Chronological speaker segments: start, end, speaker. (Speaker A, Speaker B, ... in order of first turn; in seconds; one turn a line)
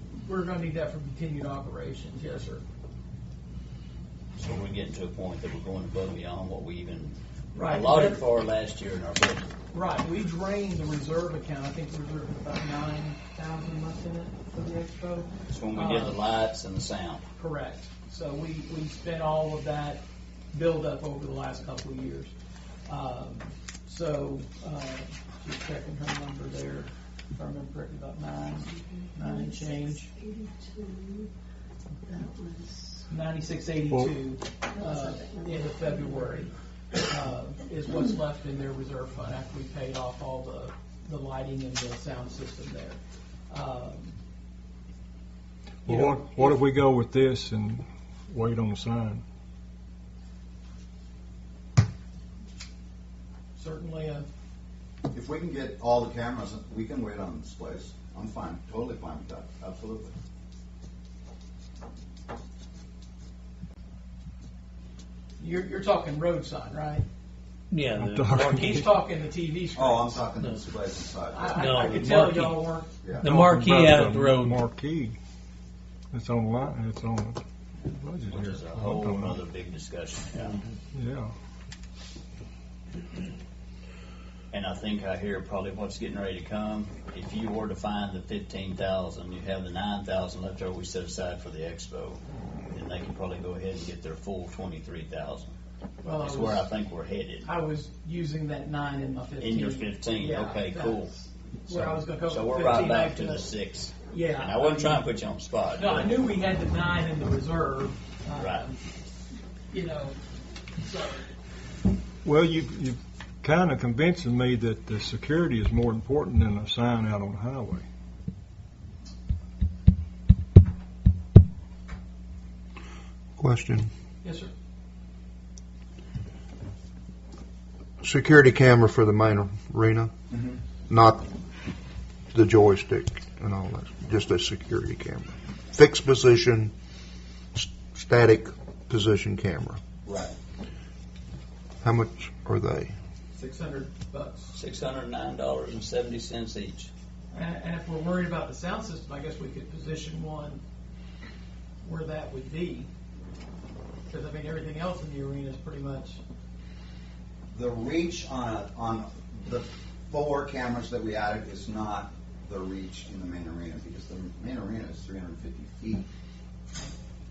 Speaker A: 0.1-2.6
Speaker B: 4.4-9.5
Speaker A: 7.5-8.2
Speaker A: 9.7-16.2
Speaker B: 15.5-17.2
Speaker A: 17.4-20.0
Speaker A: 20.5-22.3
Speaker A: 22.9-30.1
Speaker C: 28.7-31.3
Speaker C: 32.1-33.0
Speaker A: 33.1-43.0
Speaker C: 34.7-36.5
Speaker A: 43.5-44.1
Speaker D: 45.8-49.2
Speaker A: 45.9-46.6
Speaker A: 53.6-54.2
Speaker E: 55.1-60.1
Speaker A: 65.4-67.0
Speaker F: 67.7-68.8
Speaker D: 67.9-68.9
Speaker A: 68.4-70.3
Speaker E: 69.7-71.9
Speaker F: 70.4-70.6
Speaker A: 71.3-72.9
Speaker F: 71.5-72.6
Speaker E: 73.0-73.4
Speaker F: 73.2-74.6
Speaker D: 73.2-75.2
Speaker D: 76.1-79.4
Speaker B: 78.3-80.6
Speaker D: 80.9-81.3
Speaker B: 84.5-95.5
Speaker A: 96.0-96.7
Speaker B: 96.2-97.5
Speaker A: 97.4-103.5
Speaker B: 99.4-101.1
Speaker B: 101.7-106.1
Speaker A: 104.1-105.1
Speaker A: 105.7-108.8
Speaker B: 108.4-108.7
Speaker A: 109.7-110.2
Speaker A: 110.8-111.3
Speaker D: 112.2-117.8
Speaker G: 123.4-123.9
Speaker A: 124.2-124.5
Speaker G: 128.0-130.1
Speaker E: 130.3-130.6
Speaker G: 130.9-131.2
Speaker G: 132.3-136.7
Speaker G: 137.6-139.8
Speaker E: 140.1-140.3
Speaker G: 141.8-142.9
Speaker A: 143.3-144.6
Speaker B: 144.5-146.9
Speaker A: 147.3-150.6
Speaker A: 151.8-152.9
Speaker A: 154.1-156.2
Speaker E: 157.5-166.1